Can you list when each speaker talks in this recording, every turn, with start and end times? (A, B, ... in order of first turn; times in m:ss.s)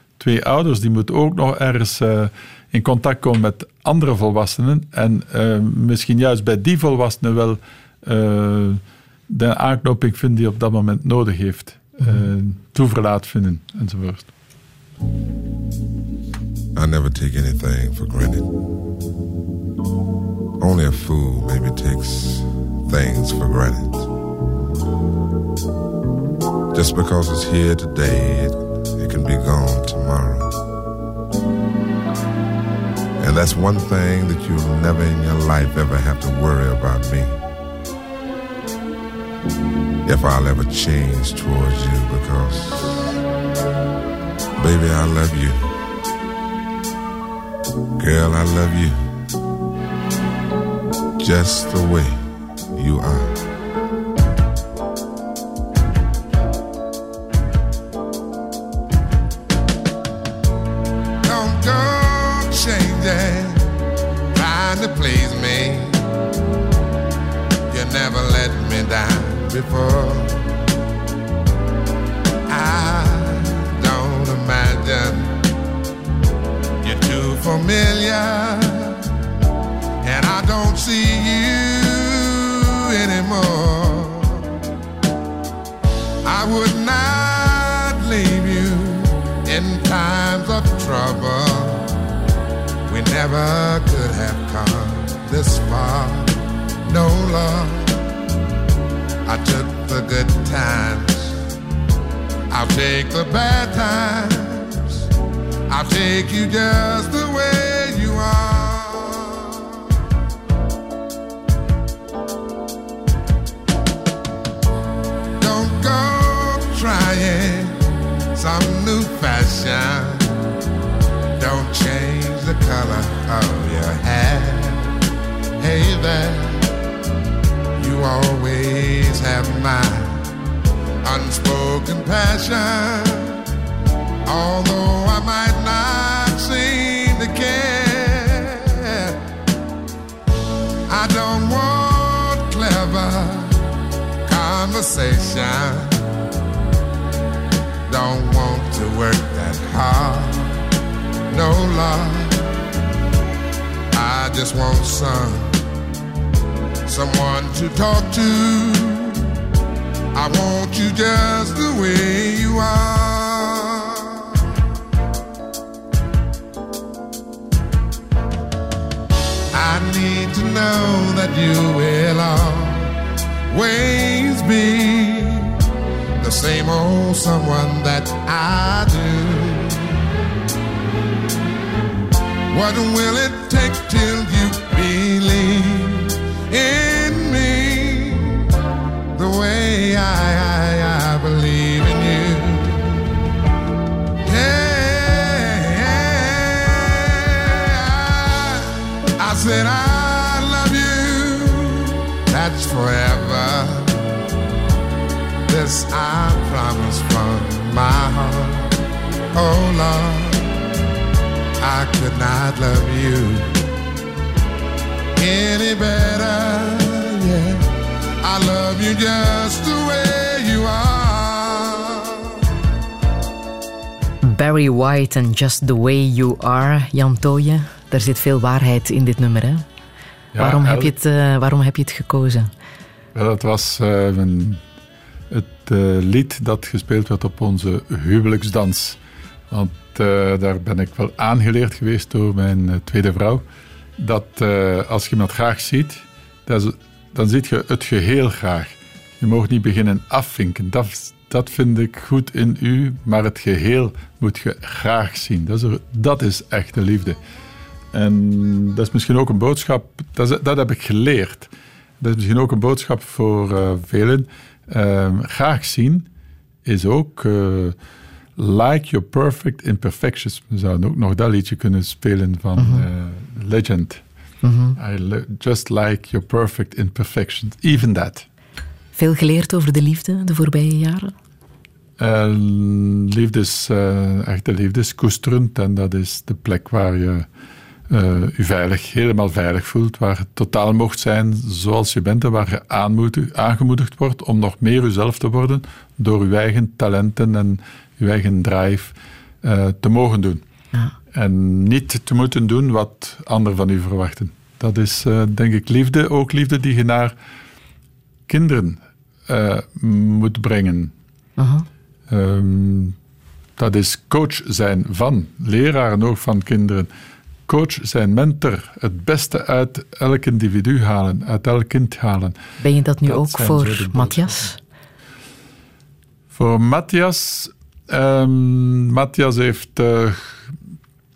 0:00.2-0:14.3 A
0:16.7-0:18.5 B
0:20.6-0:24.1 B
0:26.7-0:30.6 B
0:33.2-0:37.4 B
0:40.0-0:43.1 B
0:44.6-0:45.7 B
0:48.0-0:49.0 B
0:51.2-0:52.2 B
0:52.7-0:53.4 B
1:01.2-1:03.6 C
1:04.3-1:06.0 C
1:07.7-1:10.4 C
1:12.5-1:15.4 C
1:16.8-1:19.0 C
1:20.0-1:24.4 C
1:26.2-1:31.9 C
1:32.8-1:38.0 C
1:39.2-1:41.4 C
1:42.5-1:45.0 C
1:45.7-1:49.6 C
1:55.4-1:57.8 C
1:58.3-2:00.3 C
2:01.4-2:05.0 C
2:05.6-2:06.6 C
2:07.8-2:10.2 C
2:11.0-2:13.4 C
2:14.3-2:19.2 C
2:20.9-2:23.5 C
2:24.2-2:25.9 C
2:27.9-2:30.6 C
2:31.3-2:32.4 C
2:33.9-2:35.5 C
2:36.9-2:39.2 C
2:40.1-2:44.3 C
2:49.5-2:52.9 C
2:53.5-2:55.5 C
2:56.2-2:59.9 C
3:02.5-3:08.4 C
3:09.1-3:13.0 C
3:14.2-3:24.0 C
3:25.5-3:28.7 C
3:29.3-3:30.5 C
3:31.6-3:33.5 C
3:35.2-3:37.6 C
3:38.2-3:42.2 C
3:44.2-3:49.6 D
3:50.3-3:50.9 A
3:50.4-3:52.5 D
3:53.1-3:54.6 A
3:55.3-3:59.0 A
3:59.5-4:03.4 A
4:04.0-4:17.2 A
4:17.9-4:26.1 A
4:26.6-4:27.8 A
4:28.4-4:34.0 A
4:32.6-4:32.8 D
4:34.4-4:34.8 D
4:34.8-4:38.2 A
4:39.0-4:41.1 D
4:42.0-4:47.3 A
4:47.9-5:00.4 A
5:01.1-5:07.1 A
5:08.3-5:10.9 A
5:11.4-5:11.6 D
5:12.1-5:13.0 A
5:13.6-5:16.9 A
5:17.5-5:22.4 A
5:22.6-5:24.6 D
5:23.0-5:24.5 A
5:26.3-5:30.4 A